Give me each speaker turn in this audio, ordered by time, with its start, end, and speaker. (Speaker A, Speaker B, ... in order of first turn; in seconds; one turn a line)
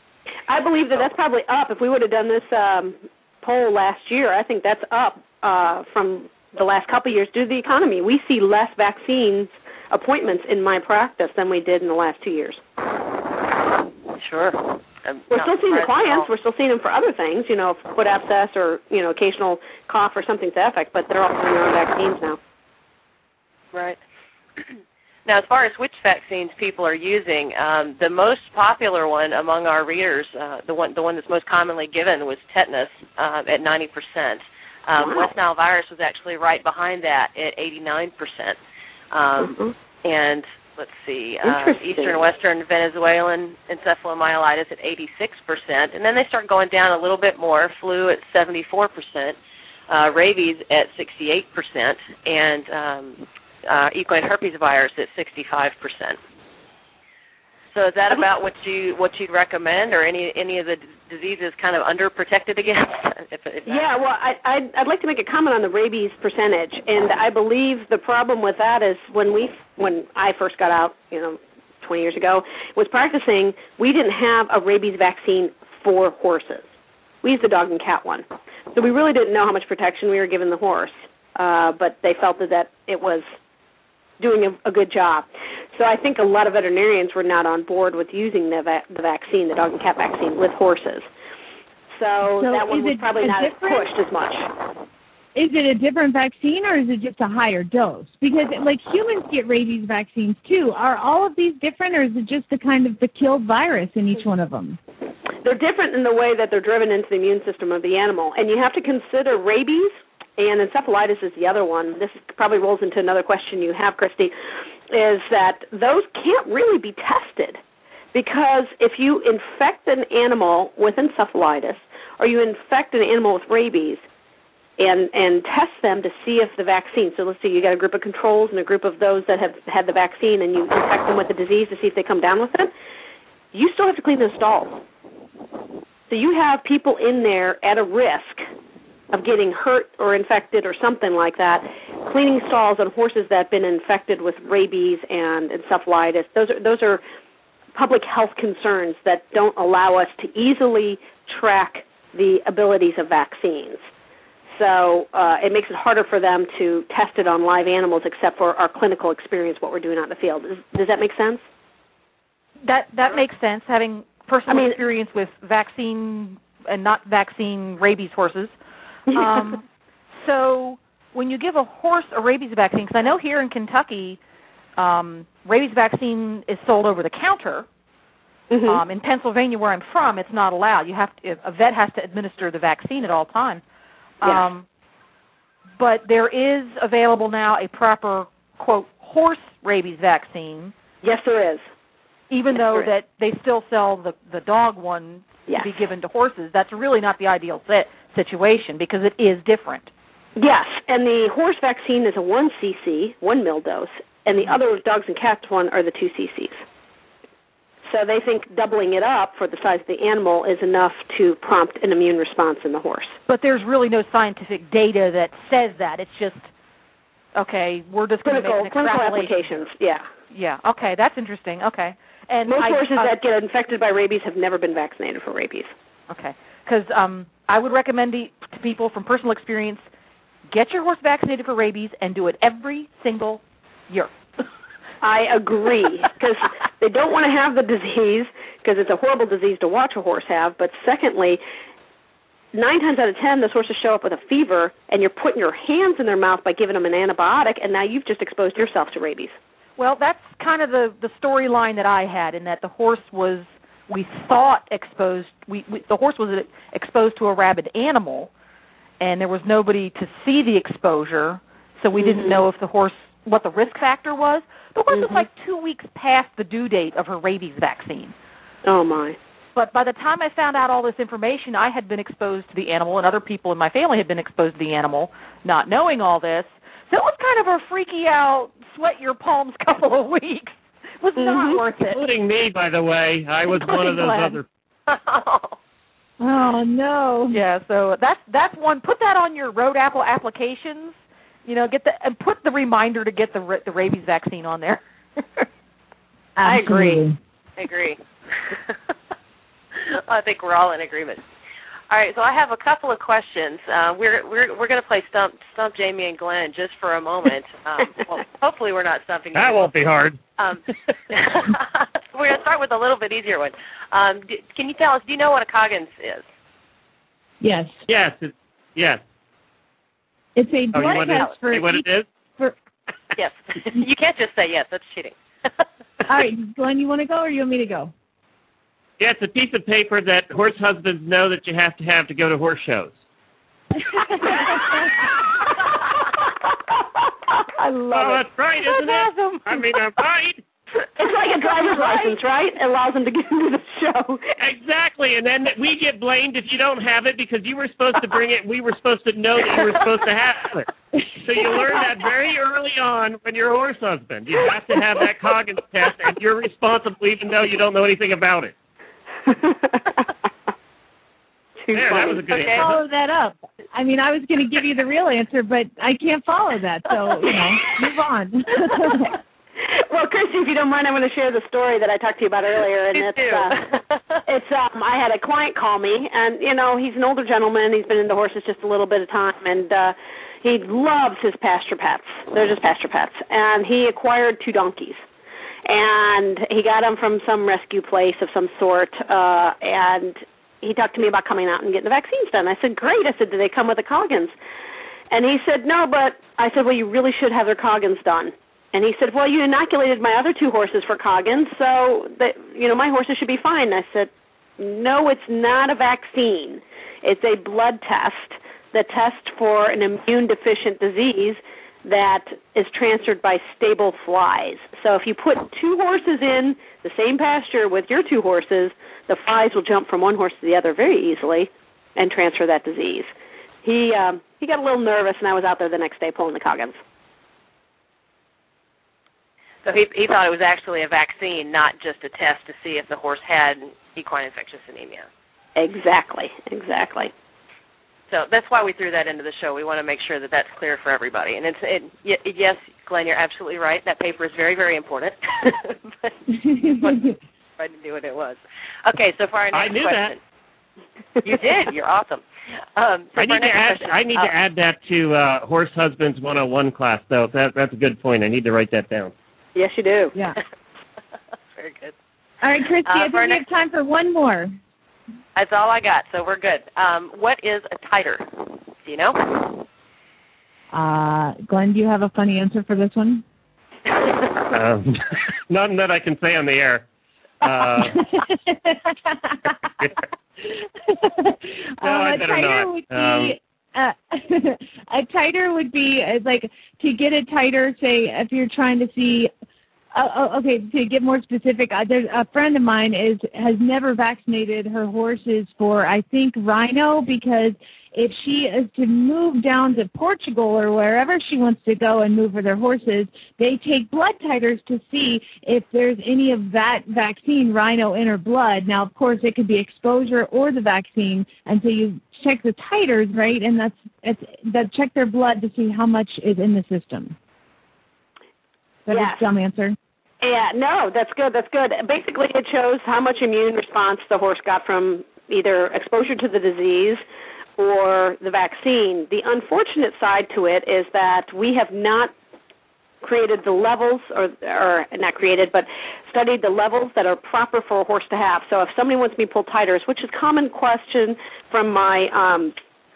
Speaker A: 0.5-12.6
Speaker B: 14.1-16.3
Speaker A: 15.3-22.4
Speaker B: 23.7-24.0
Speaker B: 25.2-38.6
Speaker A: 35.0-35.3
Speaker B: 39.1-49.4
Speaker A: 39.4-39.7
Speaker A: 41.4-42.2
Speaker B: 49.9-56.2
Speaker B: 57.7-63.9
Speaker A: 63.7-76.7
Speaker A: 77.2-83.3
Speaker A: 84.2-91.1
Speaker A: 91.9-94.5
Speaker C: 92.4-93.9
Speaker C: 95.3-104.8
Speaker A: 105.4-114.3
Speaker A: 114.9-117.6
Speaker A: 118.1-124.0
Speaker A: 124.8-132.7
Speaker A: 133.5-134.8
Speaker A: 136.1-138.5
Speaker A: 139.1-147.0
Speaker A: 147.7-153.9
Speaker A: 154.5-161.4
Speaker D: 162.6-168.5
Speaker A: 164.5-164.8
Speaker A: 169.1-169.5
Speaker D: 169.1-169.6
Speaker D: 170.2-174.2
Speaker D: 174.8-177.7
Speaker A: 178.5-178.8
Speaker D: 178.7-183.6
Speaker D: 184.2-184.7
Speaker D: 185.8-190.7
Speaker A: 191.0-191.6
Speaker D: 192.3-199.9
Speaker A: 200.4-206.6
Speaker A: 207.8-213.2
Speaker D: 213.3-216.5
Speaker D: 217.3-219.7
Speaker A: 218.2-220.1
Speaker D: 220.3-223.1
Speaker A: 222.5-225.7
Speaker D: 226.1-229.8
Speaker D: 230.5-234.1
Speaker A: 235.0-241.4
Speaker A: 242.5-249.4
Speaker D: 249.8-258.3
Speaker D: 259.0-268.1
Speaker A: 261.9-262.4
Speaker A: 264.9-265.2
Speaker A: 268.6-269.2
Speaker D: 269.5-282.0
Speaker A: 281.2-281.6
Speaker E: 281.9-284.4
Speaker D: 283.5-284.4
Speaker B: 284.9-285.6
Speaker C: 286.2-287.4
Speaker D: 287.3-295.4
Speaker C: 296.4-297.2
Speaker A: 296.4-297.0
Speaker B: 297.6-298.7
Speaker B: 299.7-301.2
Speaker B: 301.9-309.7
Speaker E: 309.3-310.2
Speaker B: 310.4-316.2
Speaker C: 317.4-317.8
Speaker E: 317.9-319.0
Speaker C: 320.3-322.5
Speaker E: 320.7-322.1
Speaker B: 320.8-321.3
Speaker B: 323.1-325.1
Speaker C: 326.1-327.9
Speaker E: 329.0-333.0
Speaker C: 333.9-334.8
Speaker A: 334.2-338.2
Speaker E: 337.9-340.4
Speaker D: 338.7-339.5
Speaker A: 341.0-344.3
Speaker E: 344.4-358.5
Speaker C: 351.4-351.8
Speaker A: 359.2-360.1
Speaker A: 361.6-362.2
Speaker E: 361.7-362.8
Speaker C: 362.0-369.1
Speaker B: 362.3-362.6
Speaker A: 369.6-373.6
Speaker B: 372.9-374.1
Speaker A: 374.2-385.0
Speaker A: 385.6-394.3
Speaker A: 395.1-423.1
Speaker A: 423.6-426.8
Speaker B: 429.6-435.1
Speaker A: 435.6-437.1
Speaker B: 438.1-446.2
Speaker C: 446.3-447.1
Speaker B: 446.8-450.2
Speaker E: 449.5-450.1
Speaker B: 451.2-452.2
Speaker B: 452.8-454.3
Speaker E: 453.1-459.1
Speaker A: 459.5-460.1
Speaker C: 460.1-460.4
Speaker B: 461.5-461.9
Speaker C: 462.4-464.6
Speaker B: 462.8-463.4
Speaker B: 465.3-468.3
Speaker B: 468.8-469.6
Speaker C: 470.7-473.2
Speaker E: 474.4-476.8
Speaker E: 477.4-478.0
Speaker C: 477.7-489.3
Speaker E: 481.8-483.4
Speaker C: 489.9-517.1
Speaker C: 518.9-519.8
Speaker A: 518.9-519.2
Speaker A: 520.2-527.0
Speaker A: 527.6-532.1
Speaker A: 533.0-542.5